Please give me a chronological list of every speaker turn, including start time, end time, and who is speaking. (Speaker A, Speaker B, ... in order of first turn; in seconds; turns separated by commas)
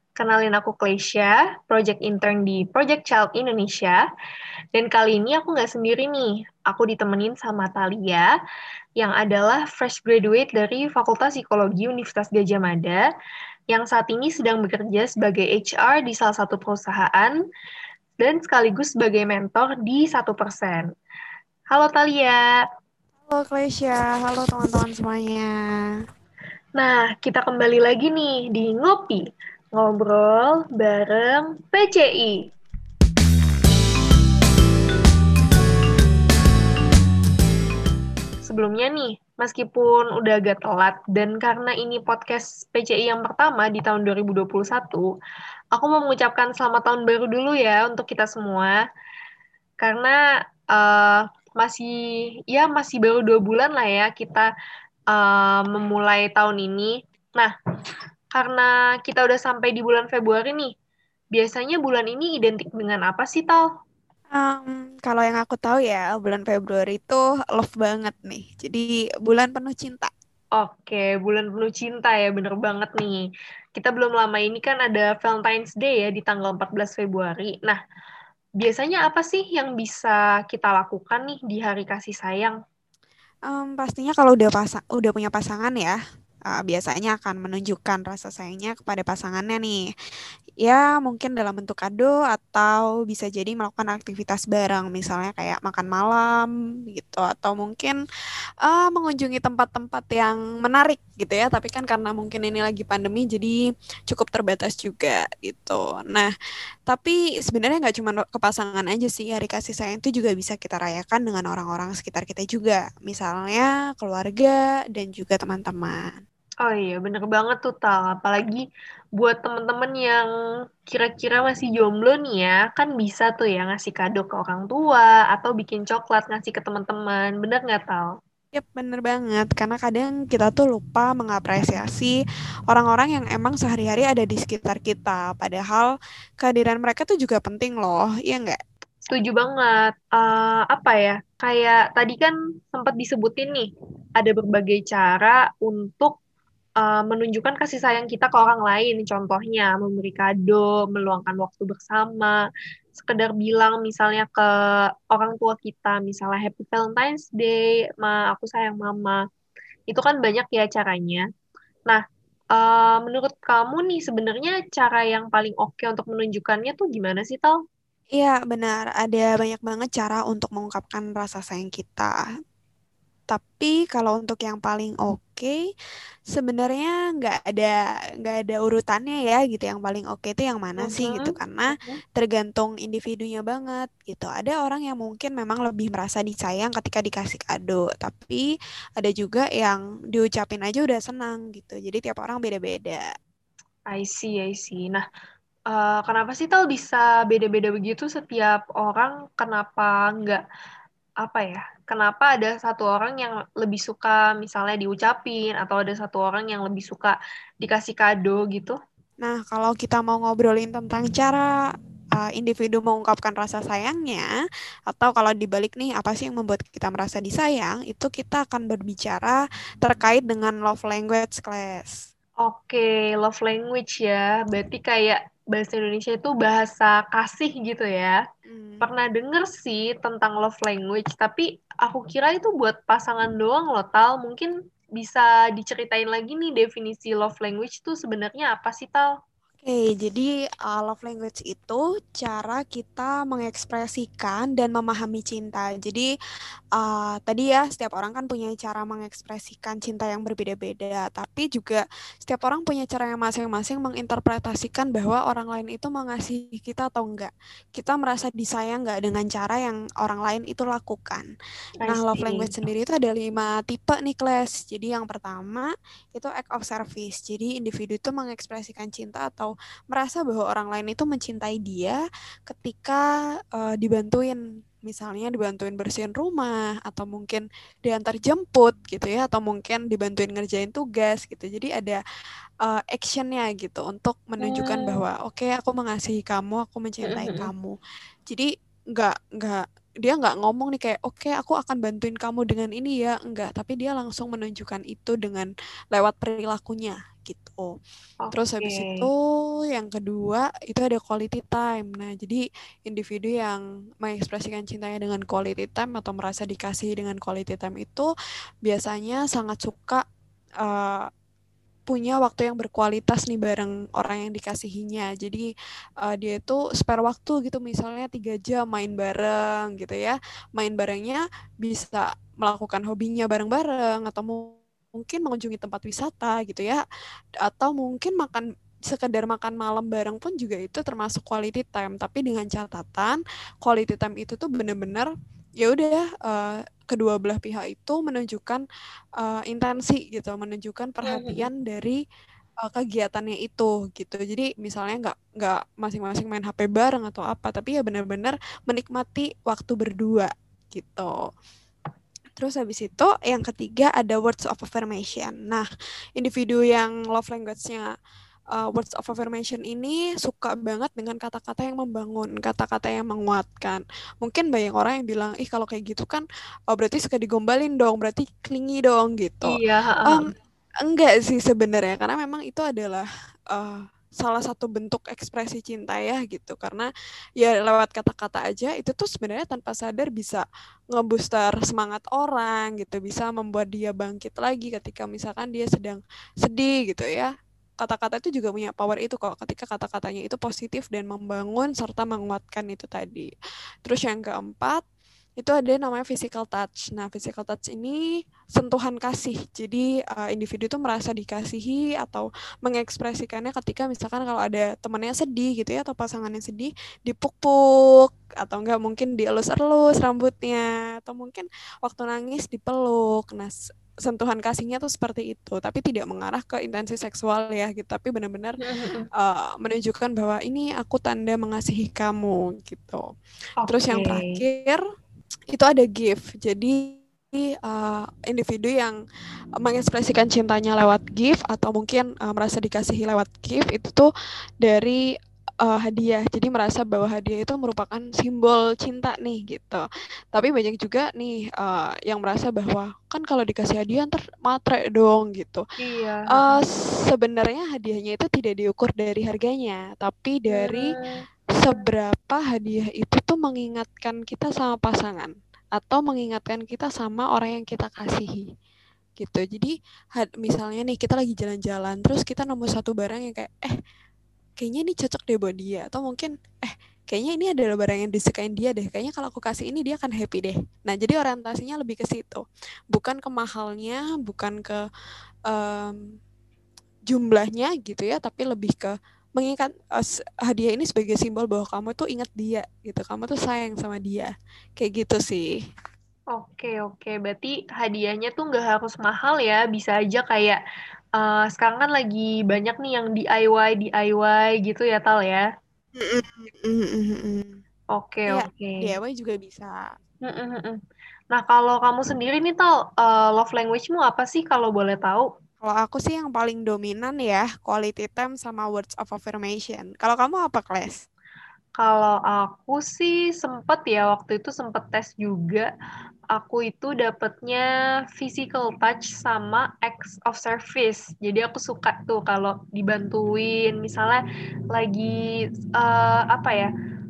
Speaker A: 0.2-4.0, Speaker A: 4.7-8.3, Speaker A: 9.0-13.0, Speaker A: 13.7-17.4, Speaker A: 18.2-20.9, Speaker A: 21.7-22.4, Speaker B: 23.3-25.6, Speaker A: 26.8-29.2, Speaker A: 29.7-32.4, Speaker A: 38.5-45.1, Speaker A: 45.7-48.8, Speaker A: 49.8-50.2, Speaker A: 50.7-51.9, Speaker A: 52.5-54.5, Speaker A: 55.1-57.5, Speaker A: 58.3-60.7, Speaker A: 61.3-63.6, Speaker B: 64.3-70.1, Speaker A: 70.5-73.2, Speaker A: 73.8-77.8, Speaker A: 78.6-82.6, Speaker B: 83.5-86.0, Speaker B: 86.5-89.9, Speaker B: 90.6-98.0, Speaker B: 98.6-103.6, Speaker B: 104.1-106.3, Speaker B: 106.9-116.2, Speaker A: 116.6-118.6, Speaker A: 119.2-120.2, Speaker A: 120.9-128.1, Speaker B: 128.5-132.1, Speaker B: 132.7-135.9, Speaker B: 136.4-138.6, Speaker A: 139.1-146.1, Speaker A: 146.8-152.4, Speaker A: 153.0-154.5, Speaker A: 155.1-159.2, Speaker A: 159.9-161.2, Speaker A: 162.5-167.6, Speaker B: 168.1-172.1, Speaker B: 173.3-175.6, Speaker B: 176.3-188.4, Speaker A: 180.8-182.0, Speaker B: 189.0-193.0, Speaker A: 193.9-195.0, Speaker A: 195.7-200.4, Speaker A: 201.2-208.8, Speaker B: 209.2-211.5, Speaker B: 212.2-214.3, Speaker B: 214.9-222.0, Speaker A: 222.4-228.2, Speaker B: 228.5-228.8, Speaker A: 228.8-239.1, Speaker B: 239.6-246.1, Speaker B: 246.8-261.3, Speaker A: 261.8-262.5, Speaker B: 261.9-273.0, Speaker B: 273.5-282.0, Speaker B: 282.6-287.7, Speaker A: 284.4-285.0, Speaker A: 287.1-287.5, Speaker B: 288.3-297.7, Speaker A: 298.2-299.1, Speaker B: 298.3-299.2, Speaker B: 299.7-308.1, Speaker B: 308.6-310.0, Speaker B: 310.6-311.1, Speaker B: 311.9-315.4, Speaker B: 316.0-326.8, Speaker B: 327.4-335.1, Speaker B: 335.6-338.6, Speaker B: 339.2-342.0, Speaker A: 341.1-341.4, Speaker B: 342.6-351.1, Speaker B: 352.4-355.6, Speaker B: 356.2-357.9, Speaker B: 358.5-370.3, Speaker A: 369.5-370.3, Speaker B: 370.9-376.9, Speaker B: 377.4-393.3, Speaker B: 393.9-394.8, Speaker B: 395.4-398.0, Speaker B: 398.5-418.6, Speaker A: 418.6-419.1, Speaker B: 419.2-423.0, Speaker A: 423.6-424.4, Speaker B: 423.7-424.8, Speaker B: 425.5-429.0, Speaker B: 429.6-434.1, Speaker B: 434.6-435.0, Speaker B: 435.6-445.6, Speaker A: 445.8-446.5, Speaker B: 446.3-450.9, Speaker A: 450.5-451.1, Speaker B: 451.6-458.4, Speaker B: 459.2-463.7, Speaker B: 464.6-474.8, Speaker B: 475.5-476.0, Speaker B: 477.1-485.6, Speaker A: 486.3-490.6, Speaker A: 491.2-495.4, Speaker B: 495.9-497.6, Speaker A: 497.9-498.9, Speaker B: 498.3-499.8, Speaker A: 500.2-500.8, Speaker A: 501.3-505.3, Speaker B: 505.6-511.0, Speaker A: 511.8-515.7, Speaker A: 516.3-517.6, Speaker A: 518.2-525.1, Speaker A: 525.8-526.7